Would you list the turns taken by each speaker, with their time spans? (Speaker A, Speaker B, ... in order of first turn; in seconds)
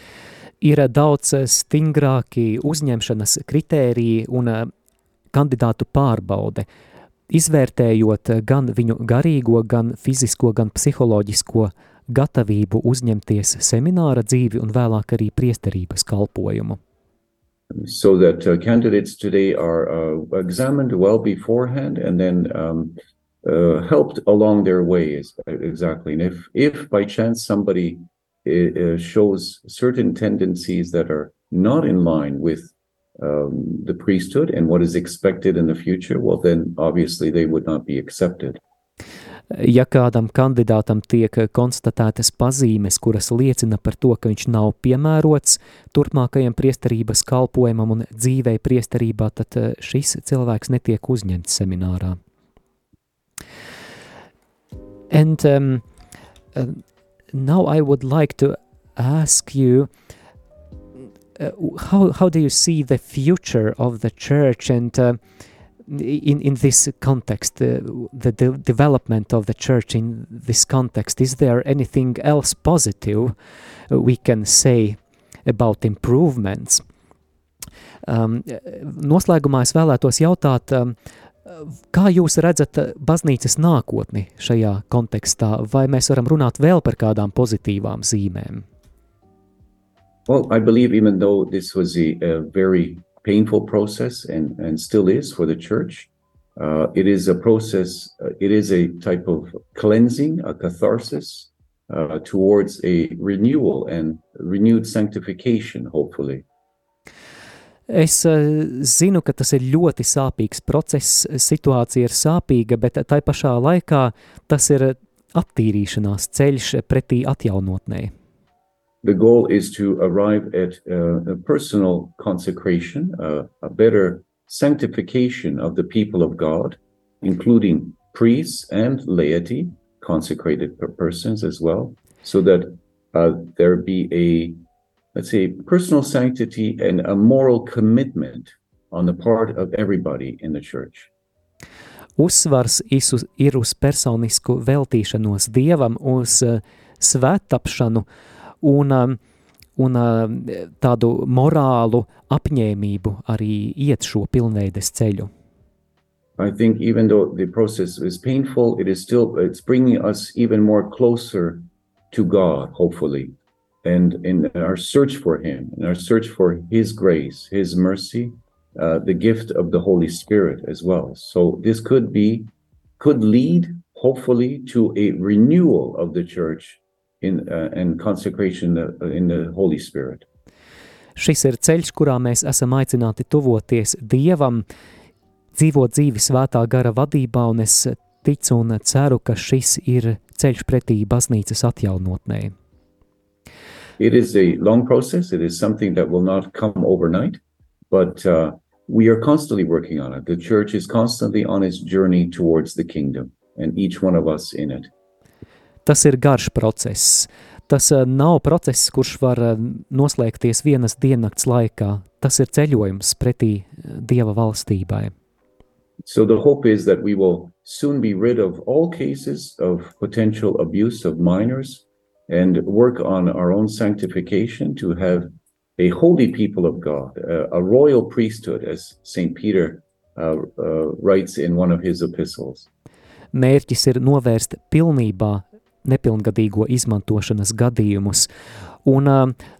Speaker A: 0.6-4.7, 5.3-6.7, 7.3-16.8, 39.5-52.2, 55.1-55.9, 56.5-59.9, 61.4-65.2, 65.9-73.3, 73.9-76.8, 78.1-88.7, 107.9-118.1, 142.2-148.1, 148.6-149.2, 149.8-155.3, 181.2-184.7, 185.5-192.5, 205.8-215.1, 233.3-238.3, 238.8-239.4
Speaker B: 17.7-38.6, 90.3-106.5, 119.0-134.6, 135.1-141.1, 156.4-163.3, 163.8-180.3, 194.0-204.9, 216.1-232.7